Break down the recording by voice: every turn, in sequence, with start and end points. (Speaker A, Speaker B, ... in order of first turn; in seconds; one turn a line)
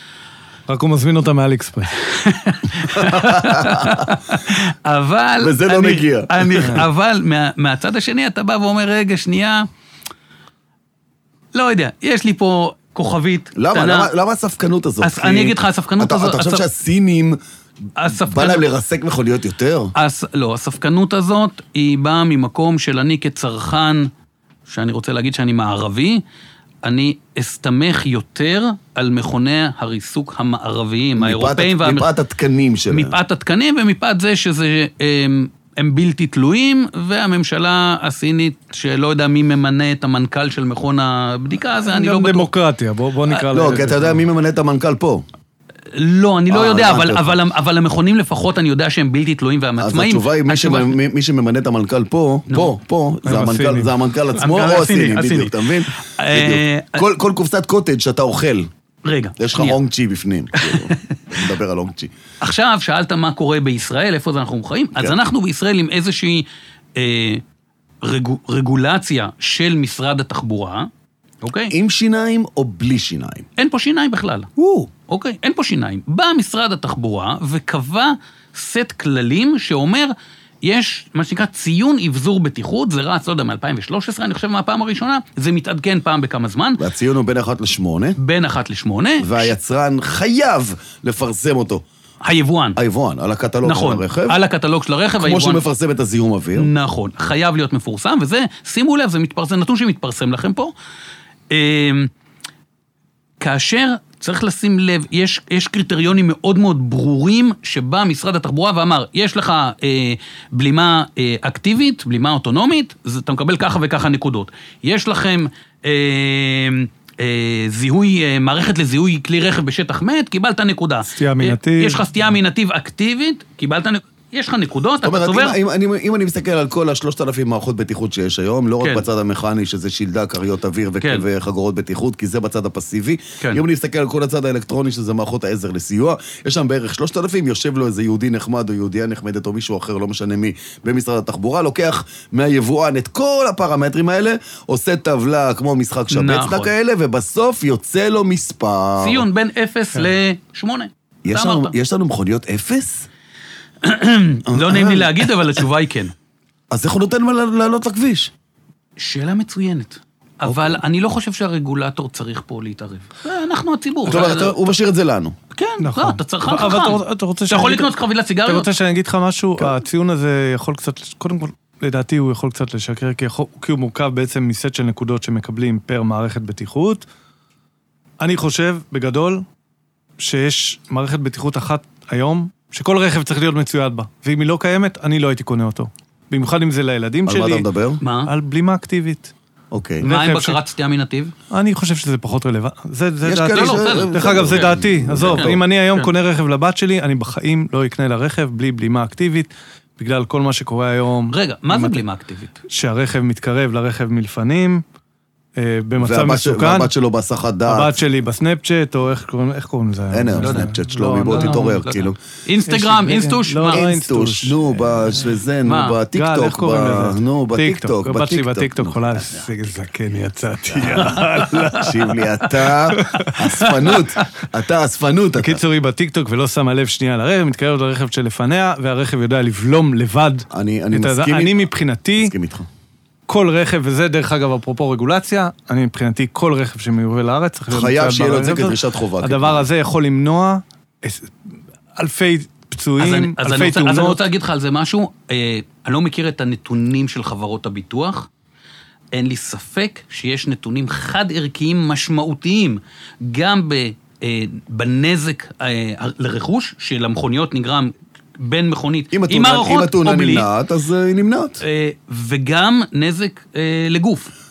Speaker A: 0.7-2.0
Speaker B: 2.0-9.7
Speaker C: 2.9-4.1
Speaker C: 5.4-6.8
Speaker B: 11.5-14.1
Speaker C: 13.6-17.4
Speaker B: 15.0-16.6
Speaker B: 18.0-18.7
Speaker C: 18.1-19.9
Speaker B: 20.0-24.1
Speaker B: 24.7-26.2
Speaker B: 26.8-32.1
Speaker C: 31.2-33.2
Speaker B: 32.9-42.5
Speaker A: 41.8-44.2
Speaker C: 43.5-45.2
Speaker B: 45.9-51.0
Speaker C: 46.5-47.4
Speaker C: 49.8-58.7
Speaker A: 53.2-53.9
Speaker B: 54.4-57.0
Speaker B: 59.0-59.8
Speaker C: 59.4-62.1
Speaker B: 60.5-61.4
Speaker B: 62.4-67.4
Speaker B: 68.0-70.9
Speaker B: 71.4-71.7
Speaker C: 71.7-73.5
Speaker B: 73.6-80.1
Speaker B: 80.6-86.8
Speaker C: 86.8-88.2
Speaker B: 88.2-89.5
Speaker C: 89.2-91.8
Speaker B: 92.2-92.8
Speaker C: 92.8-94.4
Speaker B: 93.6-95.6
Speaker C: 95.2-96.7
Speaker B: 96.5-100.7
Speaker B: 101.5-102.1
Speaker B: 103.4-125.6
Speaker A: 121.1-122.0
Speaker C: 125.0-149.2
Speaker B: 146.1-146.7
Speaker B: 149.0-151.7
Speaker C: 151.2-153.1
Speaker B: 153.8-156.1
Speaker C: 154.5-155.3
Speaker C: 156.7-158.3
Speaker B: 159.0-164.6
Speaker C: 160.4-160.8
Speaker C: 164.0-165.4
Speaker B: 165.5-168.7
Speaker A: 165.8-167.9
Speaker A: 168.5-177.1
Speaker A: 178.2-179.4
Speaker A: 180.2-187.7
Speaker C: 187.3-188.0
Speaker B: 188.0-188.3
Speaker A: 188.2-189.3
Speaker C: 189.7-190.1
Speaker A: 190.0-190.6
Speaker B: 190.0-191.3
Speaker A: 191.5-202.0
Speaker C: 193.2-195.6
Speaker B: 193.5-196.1
Speaker B: 201.3-202.6
Speaker A: 202.7-204.8
Speaker A: 205.6-206.9
Speaker C: 206.0-208.0
Speaker A: 207.7-211.8
Speaker C: 210.1-212.2
Speaker B: 210.4-213.9
Speaker A: 212.7-215.3
Speaker C: 213.7-219.5
Speaker B: 215.7-216.0
Speaker A: 216.1-224.2
Speaker C: 220.7-225.6
Speaker A: 225.4-232.3
Speaker C: 230.5-231.6
Speaker C: 232.2-232.7
Speaker A: 233.3-244.2
Speaker C: 237.7-239.6
Speaker B: 243.0-248.3
Speaker B: 249.1-260.5
Speaker C: 259.1-261.6
Speaker B: 261.6-264.3